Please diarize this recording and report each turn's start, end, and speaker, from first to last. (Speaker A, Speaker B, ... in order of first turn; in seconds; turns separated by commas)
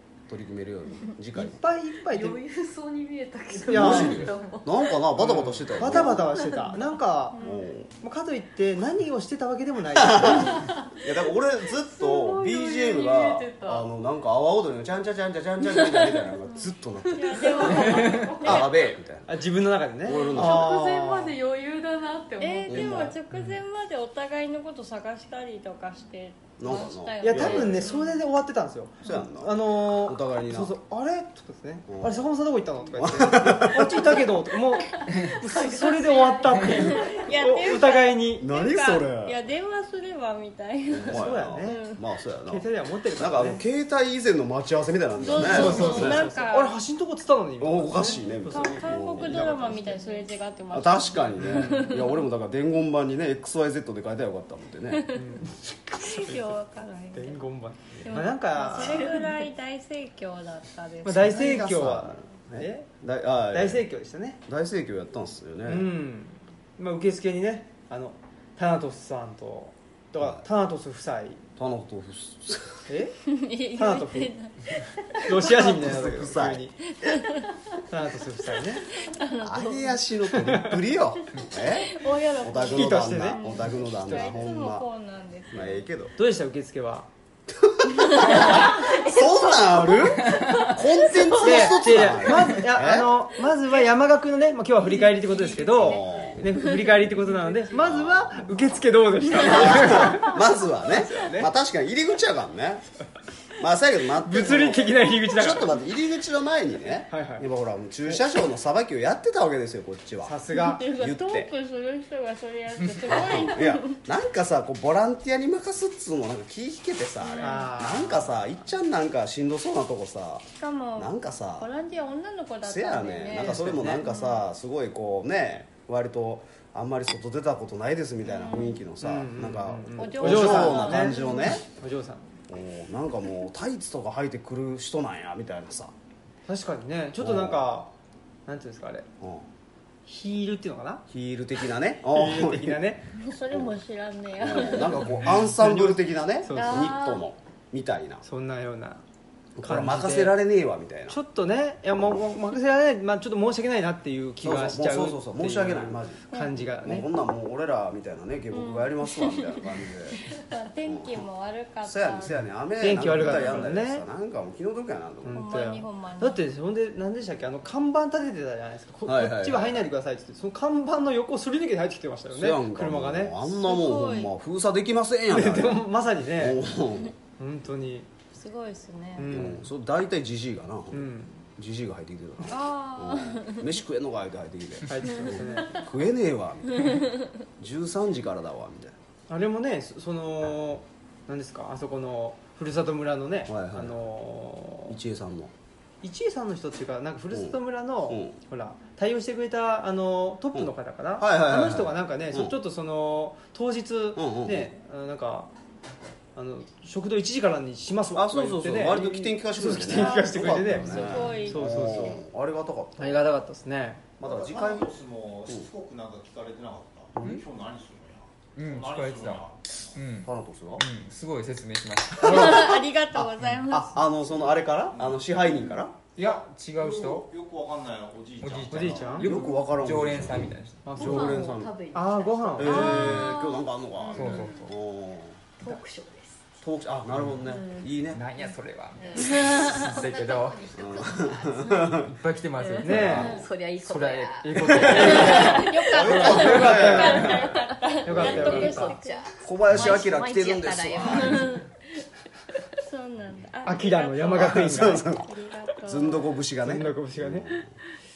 Speaker A: 0.3-1.6, Speaker B: 1.4-2.4, Speaker C: 2.1-5.0, Speaker A: 3.7-6.5, Speaker B: 3.7-4.2, Speaker B: 5.2-7.4, Speaker D: 7.3-7.7, Speaker A: 7.4-7.9, Speaker B: 8.0-10.6, Speaker A: 9.9-19.4, Speaker C: 10.6-11.1, Speaker C: 11.8-13.9, Speaker C: 16.5-18.7, Speaker D: 17.2-18.7, Speaker B: 19.2-21.4, Speaker A: 20.0-20.8, Speaker C: 20.1-23.1, Speaker D: 22.4-28.2, Speaker A: 22.7-23.2, Speaker A: 26.6-27.9, Speaker B: 27.2-38.5, Speaker A: 29.0-30.8, Speaker A: 31.9-32.3, Speaker A: 32.9-34.3, Speaker C: 34.9-37.3, Speaker D: 37.1-42.0, Speaker A: 38.4-39.4, Speaker A: 40.9-46.3, Speaker B: 41.1-41.8, Speaker B: 42.5-43.6, Speaker D: 45.2-46.8, Speaker B: 45.3-49.5, Speaker A: 47.6-55.2, Speaker D: 48.0-52.3, Speaker B: 55.1-56.6, Speaker D: 56.0-57.4, Speaker B: 57.1-59.2, Speaker D: 58.0-62.0, Speaker C: 59.1-59.4, Speaker B: 61.0-62.9, Speaker A: 61.2-63.9, Speaker B: 63.5-64.4, Speaker A: 64.5-65.9, Speaker B: 65.7-71.4, Speaker A: 70.2-70.5, Speaker A: 71.6-72.9, Speaker B: 72.9-73.2, Speaker D: 73.3-75.7, Speaker B: 73.8-74.3, Speaker B: 75.2-76.8, Speaker A: 75.4-77.2, Speaker D: 77.0-77.5, Speaker B: 77.9-78.9, Speaker D: 79.0-80.0, Speaker A: 79.4-84.9, Speaker B: 80.3-80.8, Speaker D: 81.6-85.9, Speaker B: 82.6-83.4, Speaker B: 84.0-84.4, Speaker A: 85.5-86.1, Speaker B: 86.2-87.1, Speaker A: 87.5-93.2, Speaker D: 88.0-88.6, Speaker C: 88.2-92.5, Speaker B: 91.4-101.5, Speaker C: 94.8-97.8, Speaker A: 95.6-96.5, Speaker A: 97.8-98.7, Speaker A: 99.3-102.8, Speaker A: 103.5-111.5, Speaker B: 104.2-105.8, Speaker B: 107.1-107.5, Speaker B: 110.2-110.9, Speaker D: 110.5-114.0, Speaker A: 113.0-121.7, Speaker D: 117.2-117.7, Speaker B: 117.4-118.3, Speaker D: 120.6-124.5, Speaker A: 122.6-131.7, Speaker B: 123.4-124.0, Speaker D: 128.2-128.8, Speaker B: 129.0-132.4, Speaker D: 130.0-131.6, Speaker A: 132.5-135.9, Speaker B: 136.5-137.9, Speaker A: 137.2-137.7, Speaker B: 138.5-139.1, Speaker A: 139.2-139.5, Speaker B: 140.1-141.1, Speaker A: 141.1-142.9, Speaker B: 142.1-143.1, Speaker D: 143.2-145.4, Speaker A: 143.5-143.8, Speaker A: 144.4-148.2, Speaker E: 145.2-145.5, Speaker B: 145.5-147.0, Speaker D: 146.5-147.3, Speaker B: 148.2-149.0, Speaker A: 149.6-151.2, Speaker B: 149.6-150.4, Speaker B: 151.1-157.1, Speaker A: 154.4-161.3, Speaker D: 156.3-156.9, Speaker D: 158.5-159.6, Speaker D: 160.3-162.4, Speaker A: 161.8-165.4, Speaker B: 162.8-164.0, Speaker D: 163.1-163.7, Speaker B: 165.2-173.3, Speaker D: 165.3-166.4, Speaker A: 169.1-169.9, Speaker A: 172.3-177.1, Speaker D: 173.5-174.3, Speaker B: 175.3-176.6, Speaker B: 177.4-178.1, Speaker D: 178.3-179.4, Speaker B: 179.2-179.7, Speaker A: 179.3-189.0, Speaker B: 180.9-181.5, Speaker D: 182.5-183.7, Speaker B: 184.9-185.9, Speaker D: 186.8-187.1, Speaker B: 189.3-195.0, Speaker A: 193.5-194.0, Speaker A: 194.9-195.5, Speaker B: 196.0-205.5, Speaker A: 197.3-198.4, Speaker A: 200.5-202.6, Speaker A: 204.2-204.7, Speaker B: 206.4-212.2, Speaker A: 208.1-213.2, Speaker D: 209.7-212.2, Speaker E: 210.9-211.4, Speaker B: 213.0-214.1, Speaker A: 214.2-214.9, Speaker F: 214.2-220.0, Speaker A: 217.2-217.4, Speaker E: 217.2-217.4, Speaker E: 218.6-222.7, Speaker A: 220.2-220.8, Speaker B: 222.2-223.9, Speaker D: 222.2-224.0, Speaker A: 223.9-226.0, Speaker F: 224.9-225.2, Speaker E: 226.2-227.3, Speaker F: 226.2-229.3, Speaker E: 228.4-231.2, Speaker B: 228.7-229.3, Speaker A: 229.2-231.7, Speaker B: 230.8-233.2, Speaker C: 230.9-233.0, Speaker A: 232.6-235.4, Speaker D: 232.7-233.7, Speaker E: 232.8-233.3, Speaker C: 234.0-234.6, Speaker E: 234.1-234.7, Speaker C: 235.6-236.5, Speaker A: 236.6-238.2, Speaker C: 237.4-242.0, Speaker E: 238.1-240.7, Speaker A: 240.8-242.1, Speaker E: 241.9-245.1, Speaker C: 242.6-251.6, Speaker B: 242.8-243.3, Speaker A: 242.9-243.5, Speaker D: 243.2-243.4, Speaker B: 244.4-247.4, Speaker A: 244.8-251.5, Speaker D: 245.0-249.3, Speaker B: 248.1-248.9, Speaker D: 251.2-251.7, Speaker D: 252.8-256.3, Speaker B: 253.6-255.1, Speaker A: 254.3-255.3, Speaker A: 255.8-257.8, Speaker B: 256.6-257.6